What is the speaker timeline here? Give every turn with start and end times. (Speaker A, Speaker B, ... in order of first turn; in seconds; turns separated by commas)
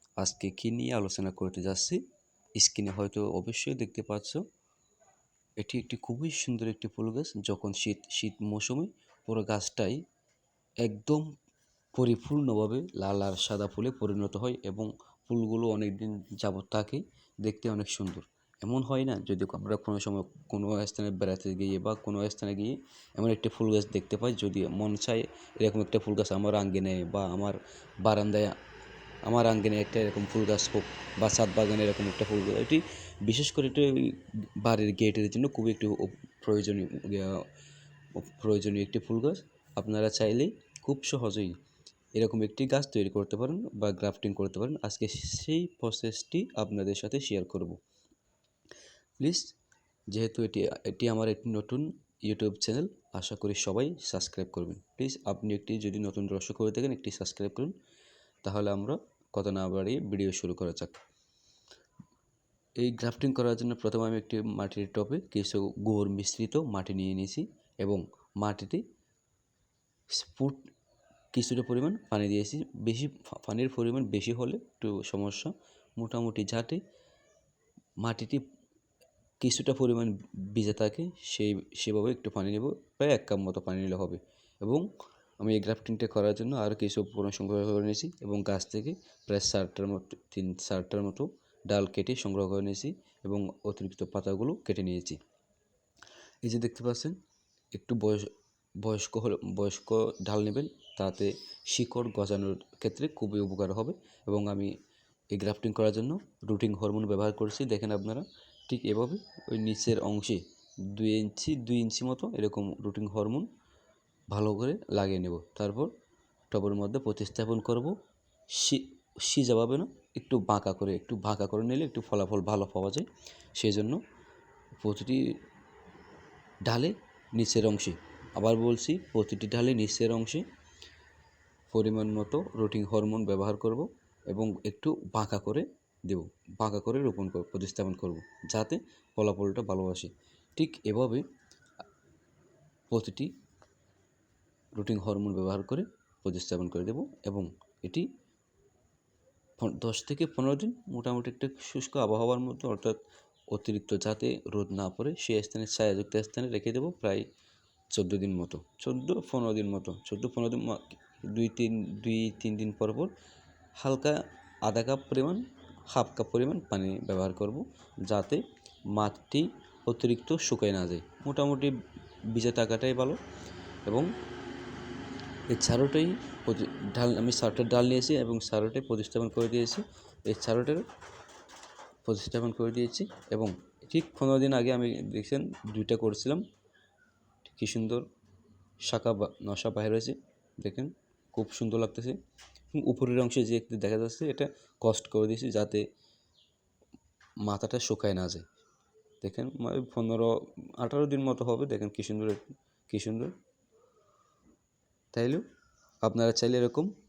Speaker A: 0.2-2.0, Speaker A: 2.5-4.4, Speaker A: 5.6-10.0, Speaker A: 10.8-11.3, Speaker A: 11.9-28.5, Speaker A: 29.2-37.4, Speaker A: 38.2-41.5, Speaker A: 42.1-47.8, Speaker A: 49.2-49.5, Speaker A: 50.1-57.7, Speaker A: 58.4-61.0, Speaker A: 62.8-68.8, Speaker A: 70.1-70.7, Speaker A: 71.3-76.8, Speaker A: 78.0-78.4, Speaker A: 79.4-84.8, Speaker A: 85.4-95.2, Speaker A: 96.4-97.2, Speaker A: 97.7-104.7, Speaker A: 105.3-113.5, Speaker A: 114.3-115.9, Speaker A: 116.5-117.9, Speaker A: 118.5-123.1, Speaker A: 123.6-124.0, Speaker A: 124.8-125.2, Speaker A: 126.7-130.4, Speaker A: 131.7-141.2, Speaker A: 142.9-143.3, Speaker A: 144.8-148.1, Speaker A: 149.6-153.0, Speaker A: 153.5-157.2, Speaker A: 157.9-163.1, Speaker A: 163.8-168.4, Speaker A: 168.9-171.7, Speaker A: 172.3-173.2, Speaker A: 175.5-180.8, Speaker A: 182.1-186.4, Speaker A: 187.5-188.0, Speaker A: 188.9-192.2, Speaker A: 192.7-195.8, Speaker A: 197.4-198.4, Speaker A: 199.2-203.3, Speaker A: 205.1-205.4, Speaker A: 206.0-206.9